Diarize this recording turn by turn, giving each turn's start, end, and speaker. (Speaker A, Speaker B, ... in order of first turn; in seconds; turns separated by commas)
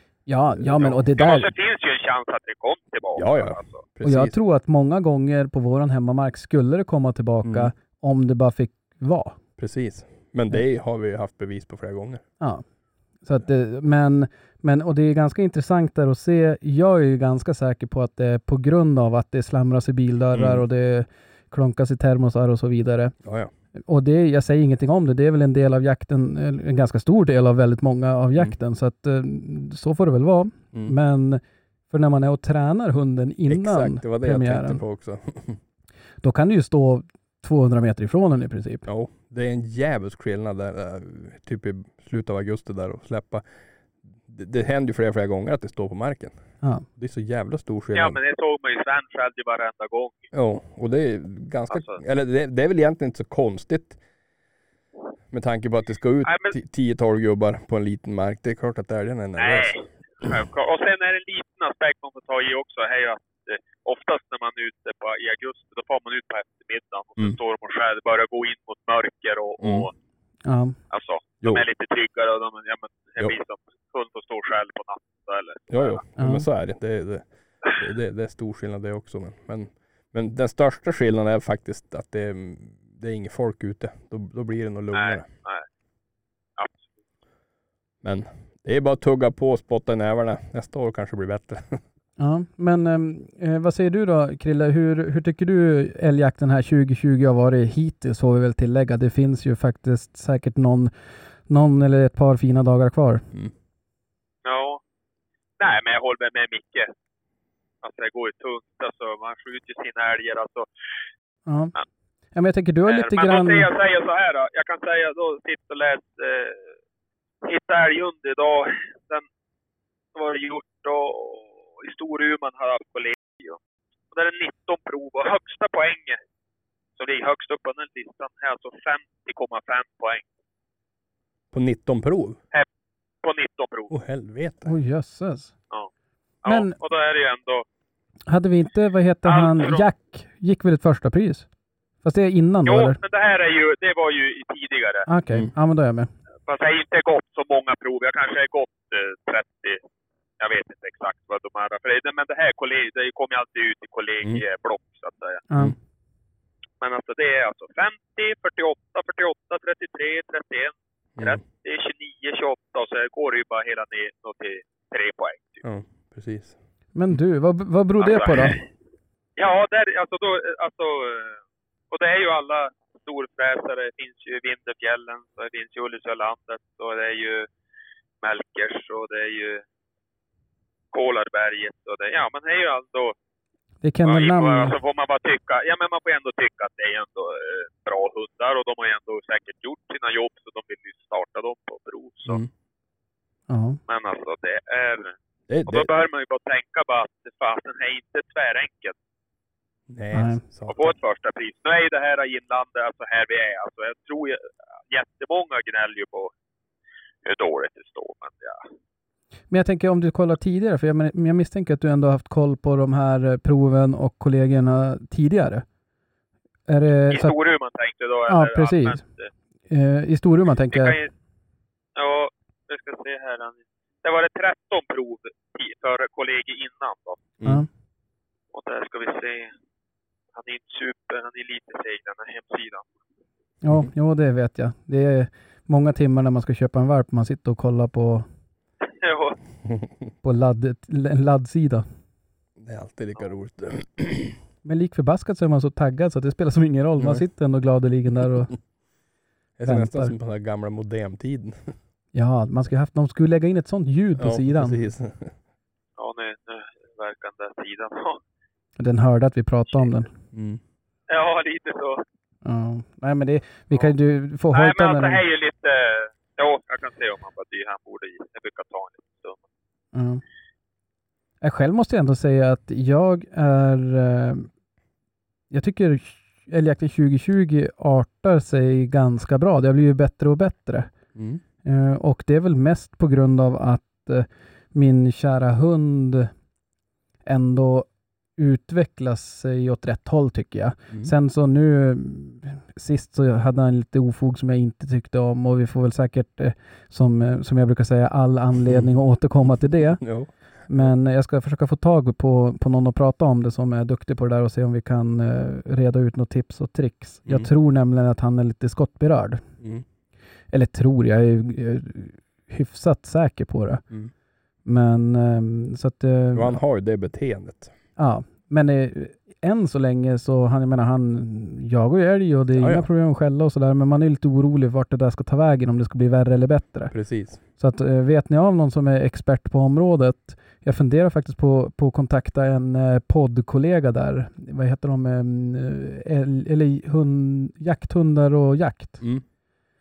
Speaker A: 0.2-1.5, Speaker B: 0.6-1.0, Speaker C: 1.1-3.8, Speaker B: 3.1-4.3, Speaker A: 4.0-9.4, Speaker B: 7.4-7.7, Speaker B: 9.6-12.2, Speaker A: 12.4-12.6, Speaker A: 13.2-23.1, Speaker B: 20.3-20.6, Speaker B: 23.2-23.5, Speaker A: 23.9-34.8, Speaker B: 33.5-35.6, Speaker A: 36.2-38.9, Speaker B: 38.9-43.4, Speaker B: 44.3-48.2, Speaker C: 47.9-50.2, Speaker B: 50.3-54.0, Speaker C: 51.7-52.0, Speaker B: 55.3-60.3, Speaker C: 56.2-56.5, Speaker C: 59.4-69.9, Speaker B: 69.6-69.9, Speaker A: 70.4-70.8, Speaker C: 70.9-76.0, Speaker B: 75.7-85.2, Speaker A: 76.2-76.4, Speaker C: 84.9-85.7, Speaker C: 86.6-86.9, Speaker B: 88.0-91.8, Speaker A: 92.2-100.9, Speaker A: 101.5-103.2, Speaker C: 104.4-104.8, Speaker C: 105.6-106.9, Speaker C: 107.8-110.7, Speaker A: 111.5-111.7, Speaker A: 112.3-113.7, Speaker C: 112.9-116.7, Speaker C: 117.4-119.2, Speaker C: 120.1-123.6, Speaker C: 124.1-126.2, Speaker C: 127.0-130.2, Speaker B: 131.5-132.4, Speaker C: 133.2-133.9, Speaker B: 133.9-134.7, Speaker A: 134.7-135.5, Speaker C: 136.4-137.6, Speaker A: 136.5-136.7, Speaker A: 138.3-141.5, Speaker C: 139.2-139.8, Speaker A: 142.0-143.0, Speaker C: 142.7-145.1, Speaker A: 145.1-146.1, Speaker C: 146.5-149.8, Speaker C: 150.4-155.4, Speaker A: 155.5-155.7, Speaker C: 156.8-165.6, Speaker B: 165.6-166.5, Speaker A: 166.9-168.6, Speaker C: 168.0-168.6, Speaker C: 169.4-171.4, Speaker C: 171.9-177.5, Speaker C: 178.2-179.6, Speaker C: 180.9-183.1, Speaker A: 183.8-184.7, Speaker C: 184.1-192.4, Speaker A: 193.5-193.8, Speaker C: 193.9-195.1, Speaker B: 195.5-195.9, Speaker C: 195.7-198.9, Speaker B: 199.9-200.9, Speaker A: 200.1-200.4, Speaker C: 200.7-206.3, Speaker C: 207.2-208.6, Speaker A: 209.5-215.6, Speaker A: 216.7-217.3, Speaker C: 217.1-219.3, Speaker A: 218.3-219.0, Speaker A: 219.7-221.0, Speaker C: 220.7-221.1, Speaker C: 221.9-227.2, Speaker B: 227.4-227.6, Speaker C: 228.5-229.5, Speaker C: 230.3-232.9, Speaker A: 233.6-238.2, Speaker C: 238.8-239.4, Speaker A: 240.2-241.8, Speaker B: 242.6-244.4, Speaker A: 244.6-248.5, Speaker B: 249.6-251.7, Speaker A: 249.7-250.1, Speaker A: 252.1-254.8, Speaker B: 254.2-255.3, Speaker C: 256.0-258.2, Speaker A: 258.8-260.1, Speaker B: 260.3-260.6, Speaker C: 261.1-262.0, Speaker A: 262.4-265.2, Speaker C: 264.5-269.4, Speaker A: 269.9-270.2, Speaker A: 271.4-274.5, Speaker A: 275.5-280.9, Speaker B: 281.1-281.4, Speaker A: 281.6-286.3, Speaker A: 287.2-300.0, Speaker B: 300.0-300.9, Speaker A: 300.7-309.4, Speaker A: 310.5-313.8, Speaker A: 314.6-316.6, Speaker B: 316.3-317.7, Speaker A: 318.0-326.9, Speaker B: 322.6-322.9, Speaker B: 326.9-327.4, Speaker A: 327.6-339.0